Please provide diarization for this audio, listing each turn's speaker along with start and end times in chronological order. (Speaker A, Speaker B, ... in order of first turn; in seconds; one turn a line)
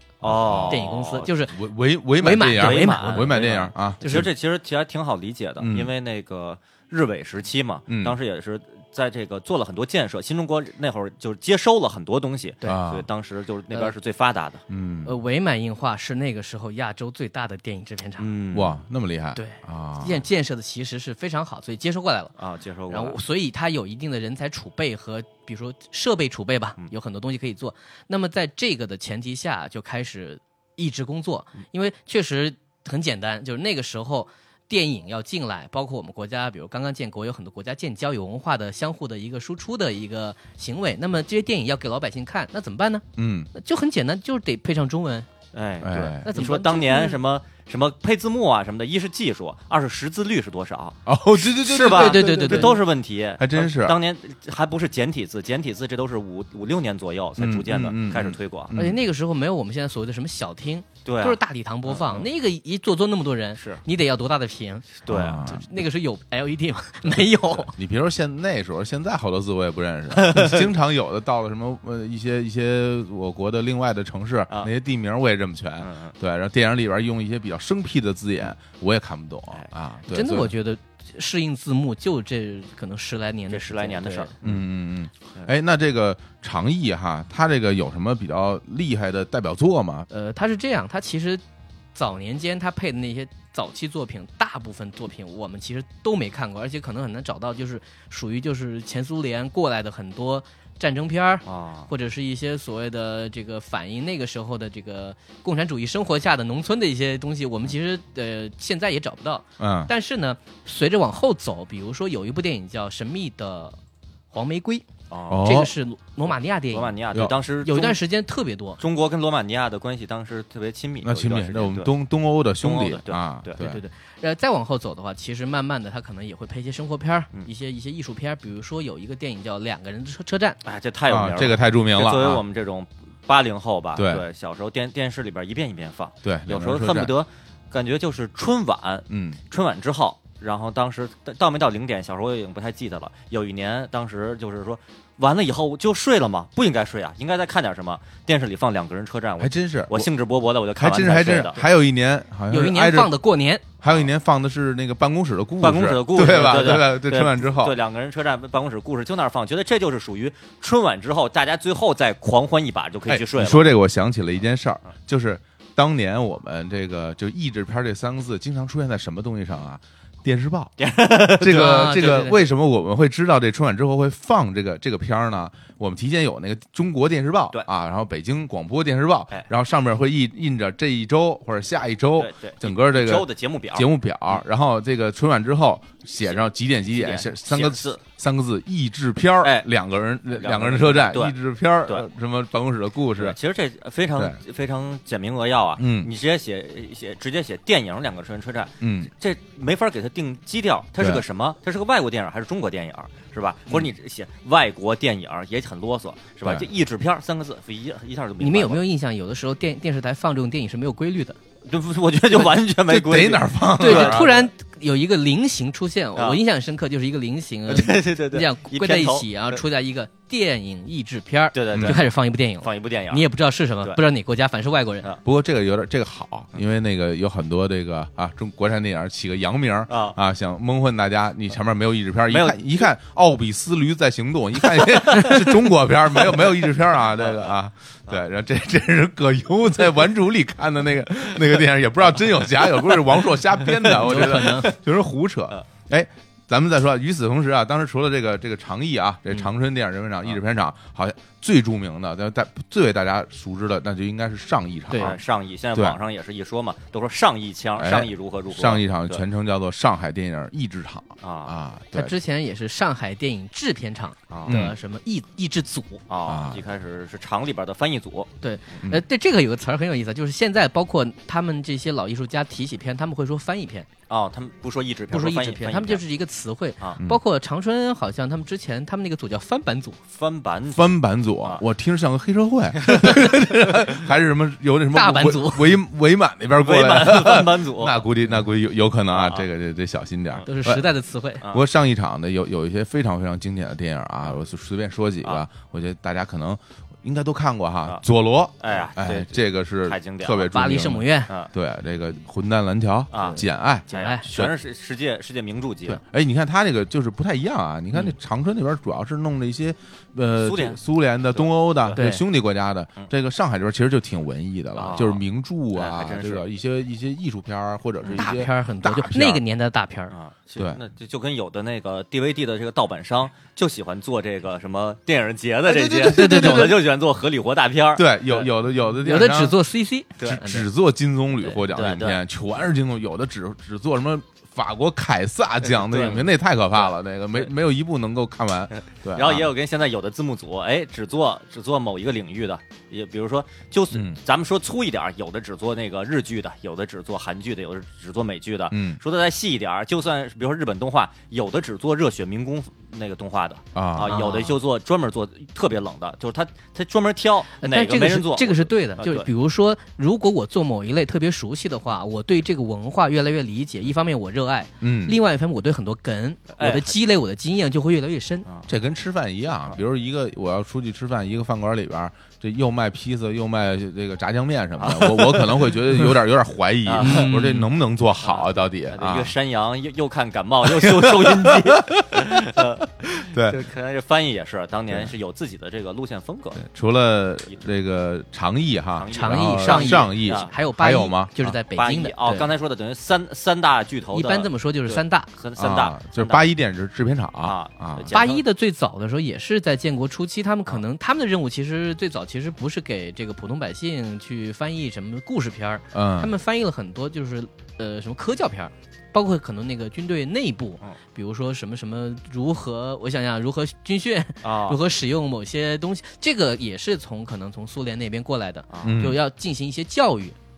Speaker A: 0.2-1.3
Speaker B: 0.2-4.3
Speaker C: 0.7-1.5
Speaker C: 2.2-4.3
Speaker A: 2.3-14.6
Speaker B: 5.6-5.9
Speaker B: 7.9-8.2
Speaker B: 12.7-13.1
Speaker B: 14.7-15.1
Speaker C: 15.1-18.3
Speaker A: 18.2-18.8
Speaker B: 18.5-20.2
Speaker C: 19.4-22.3
Speaker A: 22.4-23.2
Speaker C: 22.9-45.3
Speaker B: 43.2-43.5
Speaker A: 45.5-58.7
Speaker B: 45.8-46.3
Speaker C: 46.2-47.2
Speaker B: 51.1-52.8
Speaker C: 51.9-52.8
Speaker B: 53.4-54.0
Speaker B: 57.4-59.0
Speaker C: 58.8-67.7
Speaker A: 61.0-62.3
Speaker A: 63.6-63.8
Speaker A: 65.1-65.5
Speaker B: 65.1-65.7
Speaker B: 67.8-80.5
Speaker A: 70.1-70.7
Speaker A: 75.8-76.1
Speaker C: 80.1-84.3
Speaker A: 83.5-84.6
Speaker B: 84.4-90.1
Speaker C: 90.1-91.4
Speaker C: 92.0-113.8
Speaker A: 101.5-101.9
Speaker B: 109.6-109.9
Speaker C: 114.3-114.8
Speaker A: 115.1-115.5
Speaker B: 115.3-115.7
Speaker C: 115.4-117.0
Speaker A: 116.7-118.0
Speaker C: 117.6-118.8
Speaker A: 118.8-121.9
Speaker B: 121.0-123.8
Speaker A: 122.6-123.6
Speaker C: 123.6-130.6
Speaker A: 130.7-151.6
Speaker B: 131.1-132.4
Speaker B: 133.9-134.2
Speaker B: 136.2-137.1
Speaker B: 139.1-139.4
Speaker B: 149.4-150.1
Speaker B: 150.8-153.1
Speaker C: 152.5-153.6
Speaker B: 153.8-157.8
Speaker A: 155.6-163.7
Speaker B: 163.1-170.7
Speaker A: 170.8-172.2
Speaker B: 171.3-193.4
Speaker C: 171.5-172.4
Speaker A: 182.2-183.9
Speaker A: 186.2-188.0
Speaker A: 190.3-191.3
Speaker A: 193.2-208.8
Speaker B: 195.8-196.1
Speaker B: 198.8-199.1
Speaker B: 201.0-201.2
Speaker C: 208.4-211.4
Speaker A: 211.7-214.4
Speaker B: 212.9-214.4
Speaker C: 213.8-225.1
Speaker A: 216.2-216.4
Speaker A: 217.7-219.6
Speaker A: 221.5-223.2
Speaker B: 221.7-222.0
Speaker B: 225.2-255.2
Speaker A: 229.9-230.2
Speaker A: 232.3-232.8
Speaker A: 234.8-235.4
Speaker A: 237.2-237.5
Speaker A: 242.8-243.1
Speaker A: 243.7-244.7
Speaker C: 243.9-244.7
Speaker A: 255.0-259.2
Speaker B: 257.8-262.1
Speaker A: 261.2-261.6
Speaker C: 261.9-266.0
Speaker A: 264.3-264.6
Speaker B: 264.5-264.8
Speaker A: 266.1-268.8
Speaker B: 266.3-266.6
Speaker C: 268.4-273.9
Speaker A: 274.1-276.0
Speaker C: 275.1-280.0
Speaker A: 280.1-281.6
Speaker B: 280.7-290.9
Speaker C: 284.9-285.8
Speaker A: 286.6-288.1
Speaker A: 289.1-289.5
Speaker C: 290.5-291.4
Speaker B: 291.5-304.6
Speaker A: 298.6-300.5
Speaker C: 300.5-301.3
Speaker A: 303.1-306.0
Speaker C: 303.2-304.2
Speaker B: 305.9-319.4
Speaker A: 310.4-312.0
Speaker C: 312.0-312.2
Speaker A: 314.8-316.5
Speaker A: 318.0-318.4
Speaker C: 318.2-320.1
Speaker A: 320.1-328.5
Speaker B: 325.7-326.9
Speaker C: 326.1-326.8
Speaker B: 327.9-329.6
Speaker C: 329.0-330.6
Speaker B: 330.2-339.5
Speaker A: 331.7-332.2
Speaker A: 335.6-337.5
Speaker A: 338.8-359.3
Speaker B: 343.9-344.2
Speaker B: 348.7-349.0
Speaker B: 353.8-354.2
Speaker C: 354.1-354.6
Speaker C: 357.6-368.5
Speaker B: 364.8-365.2
Speaker A: 366.6-367.0
Speaker B: 368.7-379.3
Speaker A: 374.8-375.7
Speaker A: 376.9-377.3
Speaker C: 377.0-377.7
Speaker A: 378.2-386.6
Speaker B: 380.6-383.6
Speaker B: 386.6-391.6
Speaker A: 388.9-390.5
Speaker C: 389.1-392.5
Speaker A: 391.7-396.5
Speaker C: 394.1-395.3
Speaker B: 395.6-398.1
Speaker A: 397.4-398.4
Speaker C: 398.1-420.4
Speaker B: 405.9-406.3
Speaker A: 414.4-414.8
Speaker A: 418.7-419.0
Speaker B: 418.8-419.2